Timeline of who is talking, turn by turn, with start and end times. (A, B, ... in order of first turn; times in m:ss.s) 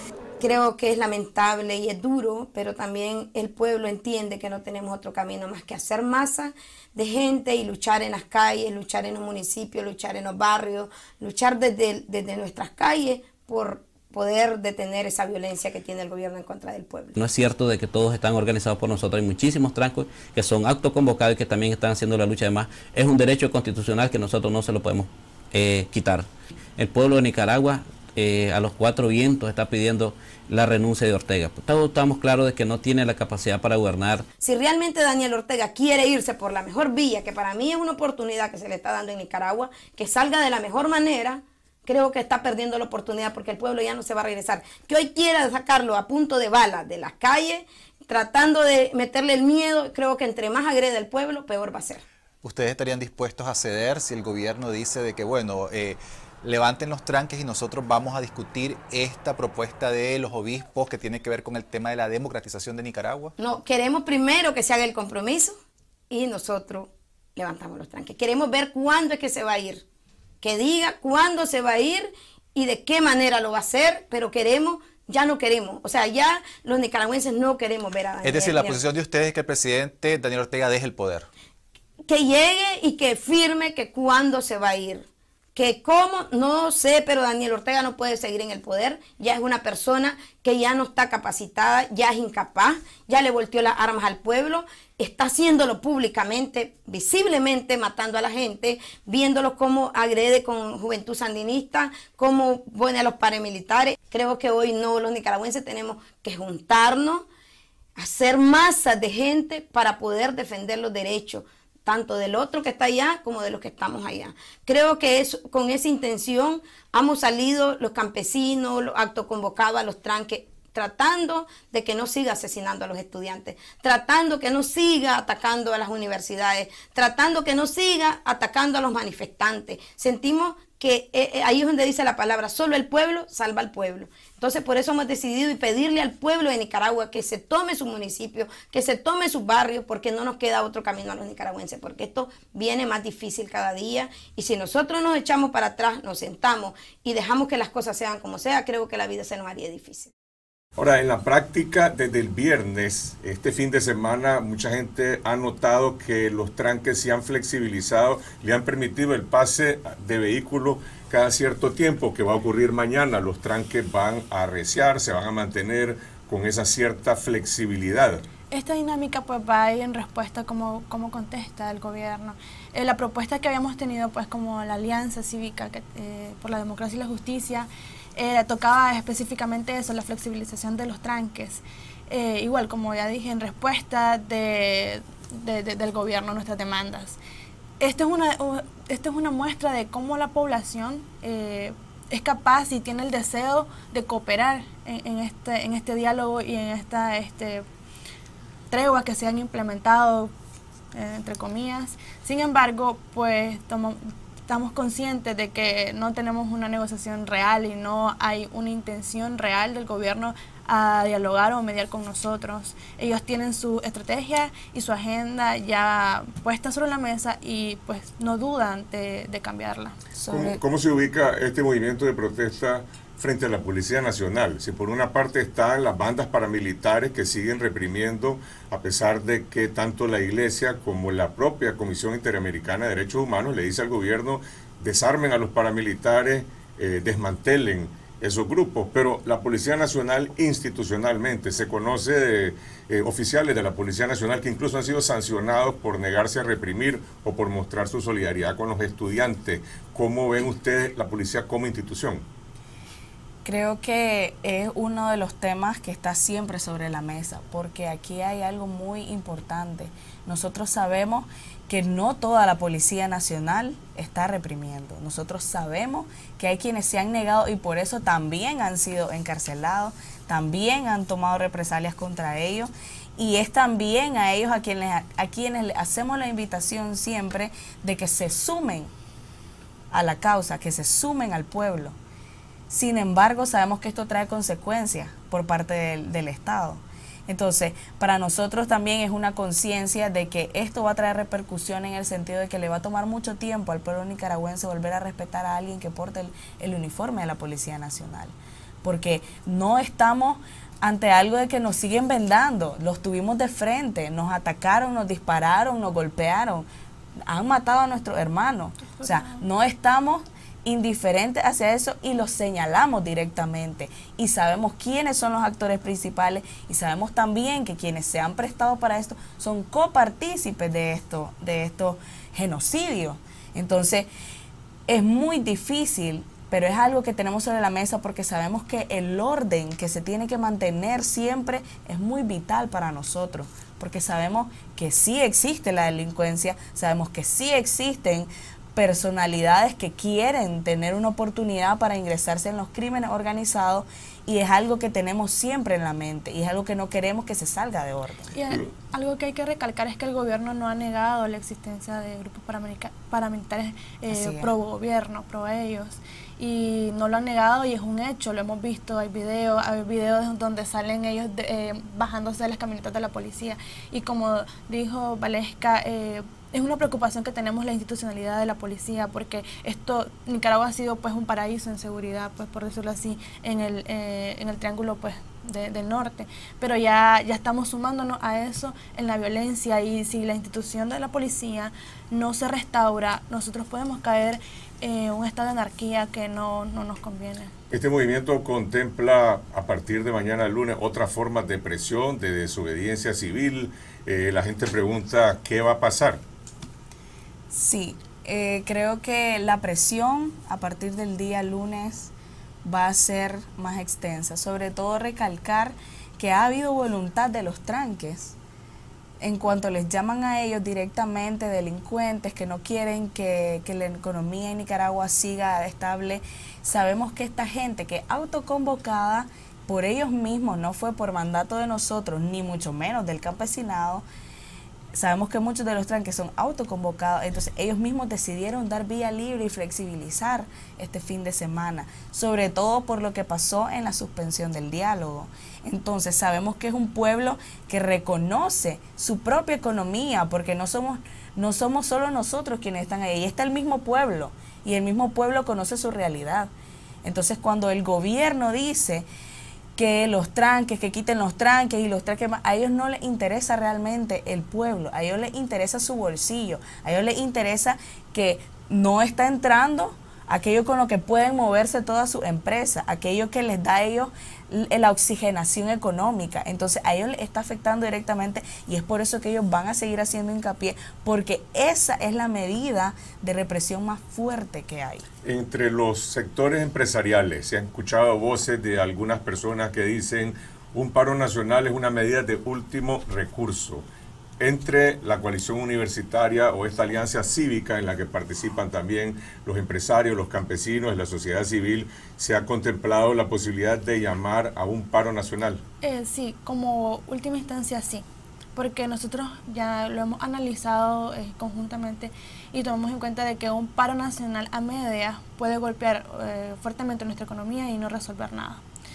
0:00.4-0:17.2 A
0:17.2-0:34.2 B
0:34.4-0:52.0 A
0:52.4-1:03.3 C
1:03.4-1:05.6 A
1:06.1-1:09.8 A
1:10.4-1:18.8 A
1:18.2-1:21.3 C
1:22.1-1:47.3 A
1:48.0-2:30.1 A
2:30.8-2:48.2 D
2:48.5-3:07.2 E
3:07.8-3:17.6 E
3:18.7-3:20.3 E
3:20.9-3:40.0 E
3:40.2-3:40.6 F
3:40.3-4:12.2 D
4:13.4-4:38.9 F
4:39.9-4:41.9 F
4:42.7-5:06.7 F
5:07.3-5:24.1 F
5:08.9-5:09.4 E
5:24.9-5:48.3 F
5:48.3-6:27.5 E
5:54.1-5:54.5 F
6:27.7-6:36.2 D
6:37.5-6:42.1 F
6:42.6-6:48.4 F
6:49.2-7:04.0 F
7:04.9-7:26.5 F
7:27.0-7:29.0 F
7:29.8-7:55.0 F
7:55.2-8:03.9 D
8:04.4-8:15.6 D
8:15.8-8:18.0 E
8:18.6-8:28.6 E